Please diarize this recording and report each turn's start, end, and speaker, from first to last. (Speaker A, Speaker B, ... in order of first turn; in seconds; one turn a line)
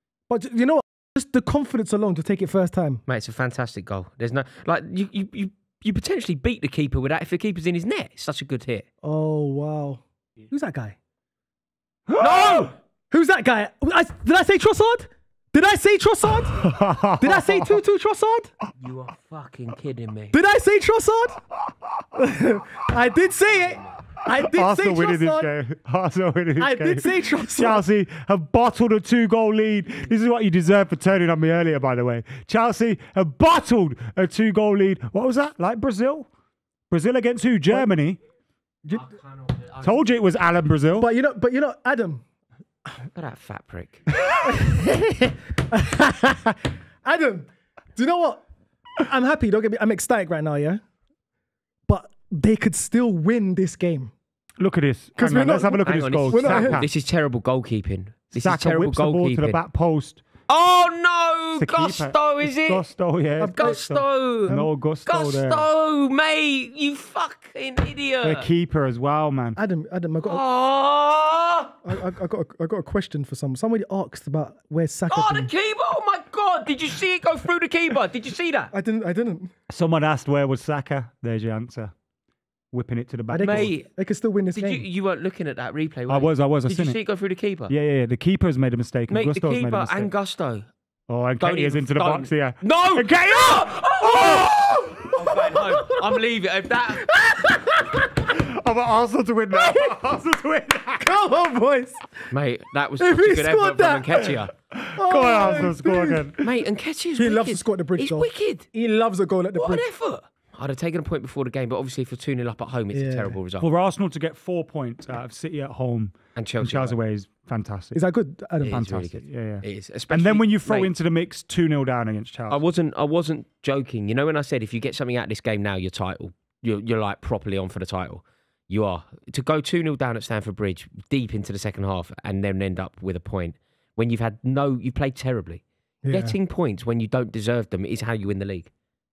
Speaker A: 0.3-3.0
Speaker B: 3.1-8.8
Speaker A: 9.0-11.0
Speaker C: 12.1-12.6
Speaker B: 12.2-12.7
Speaker A: 12.2-18.5
Speaker C: 16.4-17.8
Speaker B: 18.8-20.4
Speaker A: 20.3-21.4
Speaker A: 22.1-25.5
Speaker C: 24.4-36.3
Speaker A: 26.6-27.8
Speaker C: 36.9-38.2
Speaker B: 38.9-40.0
Speaker C: 39.8-41.1
Speaker A: 41.0-42.2
Speaker B: 43.1-44.0
Speaker A: 44.3-48.4
Speaker A: 49.0-50.8
Speaker A: 51.9-54.1
Speaker C: 54.6-56.9
Speaker A: 55.1-56.8
Speaker B: 55.8-59.6
Speaker C: 58.3-60.2
Speaker B: 60.5-62.8
Speaker C: 61.5-65.7
Speaker A: 63.4-63.9
Speaker B: 63.5-64.5
Speaker A: 64.5-64.7
Speaker B: 65.0-68.5
Speaker C: 68.2-69.6
Speaker A: 69.5-70.4
Speaker B: 70.2-71.8
Speaker A: 71.8-75.5
Speaker B: 75.1-78.7
Speaker A: 78.7-79.5
Speaker C: 79.7-81.9
Speaker C: 82.7-83.7
Speaker A: 83.3-84.8
Speaker B: 83.4-83.9
Speaker B: 84.5-87.7
Speaker C: 86.1-87.0
Speaker C: 87.7-90.1
Speaker B: 89.1-90.7
Speaker C: 91.1-94.7
Speaker B: 91.4-97.1
Speaker A: 94.9-96.2
Speaker A: 97.0-98.1
Speaker C: 98.3-101.2
Speaker A: 99.5-100.0
Speaker A: 101.0-102.2
Speaker B: 102.3-104.5
Speaker A: 103.0-104.2
Speaker C: 104.7-106.5
Speaker A: 104.9-106.3
Speaker B: 106.4-108.7
Speaker A: 107.1-109.9
Speaker B: 109.5-113.7
Speaker A: 112.9-113.4
Speaker C: 113.6-118.0
Speaker B: 116.3-117.0
Speaker A: 117.9-118.8
Speaker B: 118.6-120.9
Speaker C: 118.6-122.6
Speaker B: 122.5-138.7
Speaker A: 136.0-136.3